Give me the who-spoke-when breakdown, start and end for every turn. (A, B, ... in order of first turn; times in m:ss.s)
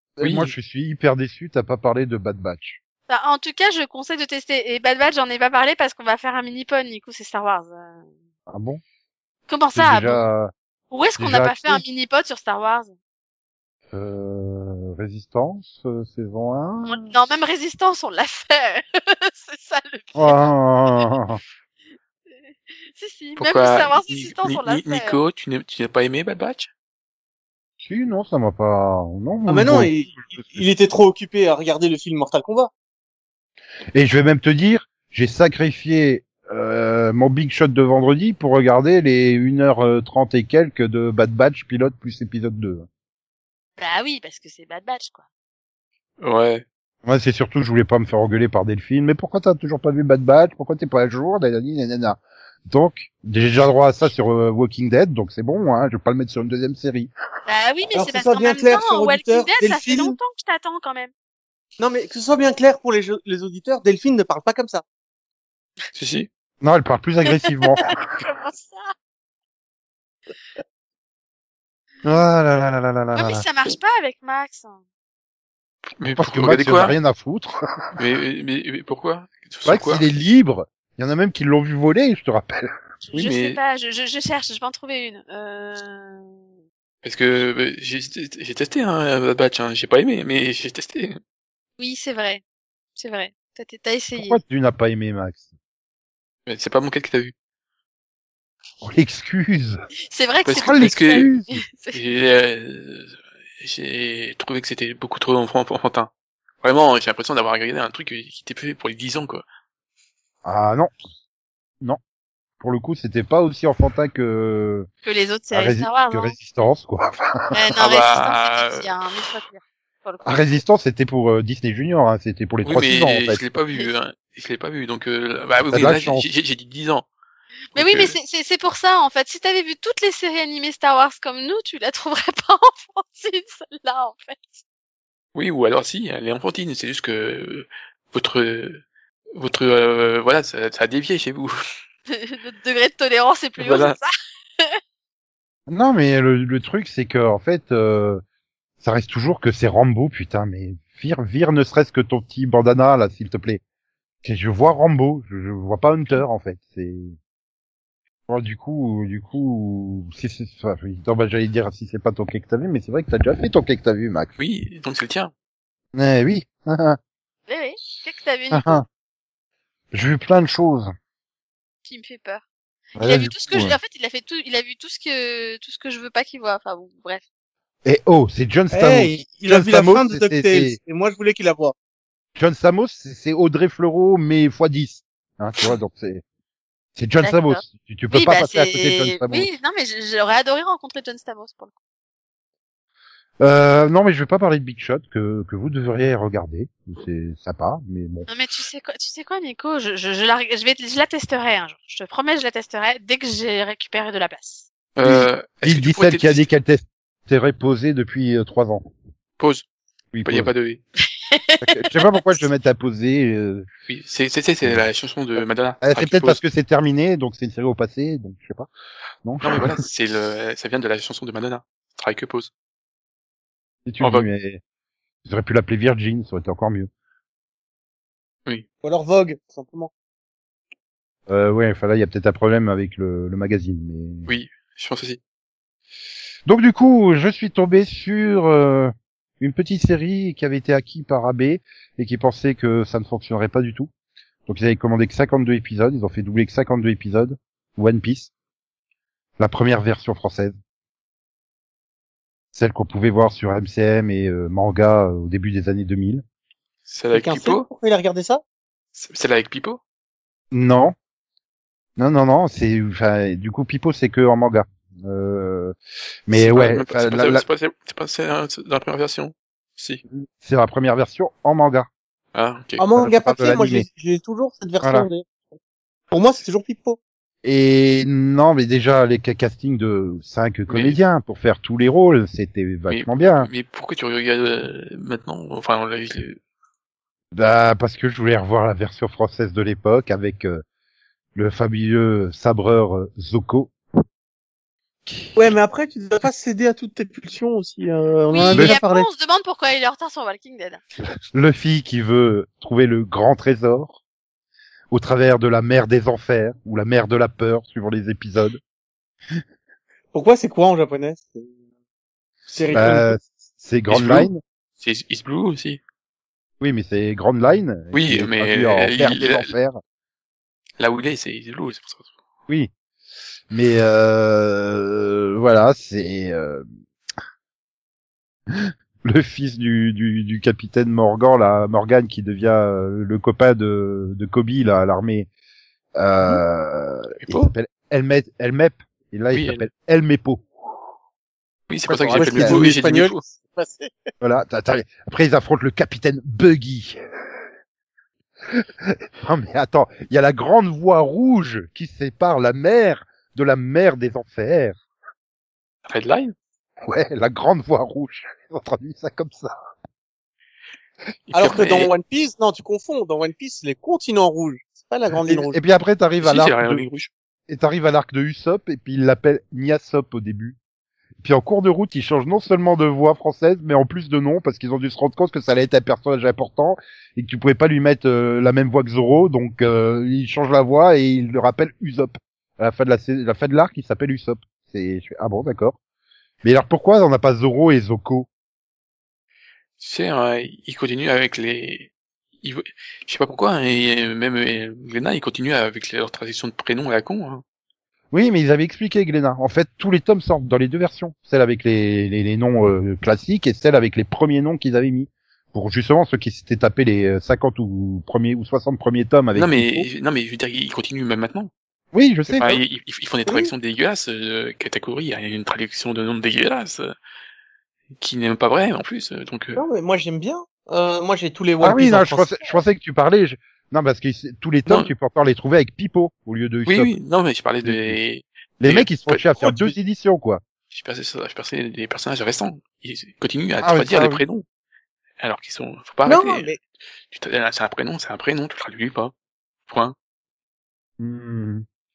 0:00.2-0:02.8 A
0:00.2-0:00.5 B
0:03.1-0:08.0 C
0:08.5-0:08.8 A
0:09.5-0:10.2 C
0:09.8-0:10.5 A
0:10.9-0:12.9 C
0:11.2-0:11.8 A
0:13.9-0:17.1 A
0:16.9-0:21.1 C
0:20.2-0:21.4 A
0:22.3-0:25.2 C
0:23.4-0:26.7 B
0:27.8-0:30.6 A
0:29.5-0:32.7 D
0:33.9-0:42.9 A
0:43.8-0:45.2 C
0:46.2-0:46.6 B
0:47.0-0:57.1 A
0:57.5-1:01.1 C
0:57.9-1:00.2 D
1:01.8-1:04.8 D
1:05.9-1:06.3 B
1:06.6-1:08.0 A
1:07.3-1:08.9 C
1:12.0-1:13.4 A
1:13.1-1:14.8 C
1:16.0-1:17.0 B
1:16.2-1:17.6 A
1:18.0-1:20.1 B
1:19.7-1:22.7 A
1:23.0-1:26.4 C
1:23.1-1:23.6 B
1:27.0-1:31.2 B
1:31.8-1:32.4 C
1:33.0-1:34.4 C
1:34.2-1:35.5 A
1:36.5-1:37.3 B
1:38.8-1:39.8 A
1:40.1-1:42.0 C
1:40.4-1:41.3 B
1:40.6-1:41.6 A
1:41.9-1:46.1 B
1:46.6-1:49.4 B
1:50.4-1:50.9 A
1:52.6-1:54.9 A
1:55.0-1:56.4 C
1:55.5-1:57.6 A
1:57.5-2:00.5 C
1:57.8-1:58.9 B
2:00.2-2:03.4 A
2:02.6-2:07.1 B
2:05.7-2:06.3 A
2:07.7-2:14.6 C
2:07.8-2:08.2 B
2:15.4-2:18.8 B
2:19.4-2:21.6 B
2:22.1-2:24.1 C
2:23.6-2:24.0 B
2:25.7-2:28.2 A
2:28.8-2:33.6 A
2:34.2-2:37.2 A
2:38.3-2:44.3 A
2:44.4-2:45.3 B
2:45.9-2:47.0 A
2:47.5-2:48.8 C
2:48.5-2:48.8 A
2:49.9-2:50.9 A
2:51.8-2:52.4 C
2:53.0-2:53.8 A
2:53.0-2:57.2 C
2:57.8-3:00.8 A
2:58.7-3:01.7 D
3:02.4-3:06.2 A
3:07.0-3:09.5 A
3:07.2-3:11.7 C
3:13.4-3:18.3 A
3:18.3-3:24.7 C
3:25.0-3:26.4 B
3:25.0-3:28.9 A
3:29.4-3:29.6 B
3:30.1-3:30.5 A
3:30.3-3:30.8 B
3:31.3-3:32.4 C
3:31.6-3:33.7 A
3:33.9-3:36.4 B
3:35.8-3:38.7 A
3:39.2-3:39.7 A
3:39.4-3:42.5 B
3:43.9-3:44.6 A
3:44.0-3:44.3 B
3:45.3-3:46.9 A
3:48.8-3:49.9 D
3:51.3-3:54.3 A
3:54.3-3:55.2 B
3:56.5-4:03.9 A
4:04.5-4:08.3 A
4:09.4-4:10.6 A
4:12.6-4:16.2 A
4:16.9-4:17.7 B
4:17.1-4:18.4 D
4:19.0-4:19.8 B
4:20.5-4:21.0 A
4:22.0-4:25.8 A
4:26.3-4:27.4 A
4:26.4-4:30.0 B
4:30.2-4:31.9 A
4:32.3-4:32.8 B
4:32.8-4:35.6 D
4:33.0-4:33.9 A
4:34.8-4:35.1 A
4:36.1-4:37.0 D
4:37.4-4:43.5 A
4:40.7-4:41.0 B
4:42.9-4:46.4 B
4:47.3-4:50.6 A
4:51.4-4:53.7 A
4:55.1-4:55.6 A
4:55.4-4:59.1 D
4:58.3-5:00.8 C
4:58.5-4:58.8 A
5:01.3-5:04.0 A
5:04.9-5:08.6 A
5:10.1-5:11.5 D
5:12.5-5:13.2 D
5:12.7-5:14.4 A
5:13.9-5:15.8 B
5:16.6-5:19.8 A
5:17.9-5:19.5 B
5:20.8-5:22.1 B
5:23.5-5:26.6 A
5:28.5-5:35.3 A
5:36.0-5:40.4 A
5:37.2-5:37.5 B
5:39.3-5:39.6 B
5:41.7-5:43.2 B
5:41.9-5:42.7 A
5:42.1-5:43.9 D
5:44.2-5:47.0 A
5:48.5-5:54.8 A
5:55.9-5:56.4 B
5:56.9-5:59.6 A
6:01.3-6:01.9 B
6:01.4-6:05.6 D
6:05.3-6:06.8 A
6:06.2-6:07.1 B
6:07.5-6:10.6 A
6:11.2-6:25.8 A
6:26.4-6:28.3 A
6:29.8-6:31.9 B
6:32.4-6:37.4 B
6:38.1-6:49.9 A
6:49.3-6:51.5 B
6:51.9-6:52.6 A
6:52.4-6:56.9 B
6:53.3-6:53.5 D
6:58.0-6:59.6 B
6:59.6-7:02.3 D
7:01.6-7:06.9 A
7:06.6-7:09.8 B
7:07.6-7:08.0 A
7:08.6-7:10.4 A
7:10.7-7:14.4 B
7:13.6-7:14.2 A
7:15.2-7:16.5 B
7:16.1-7:16.6 D
7:17.1-7:19.1 B
7:19.7-7:20.0 B
7:21.0-7:21.6 A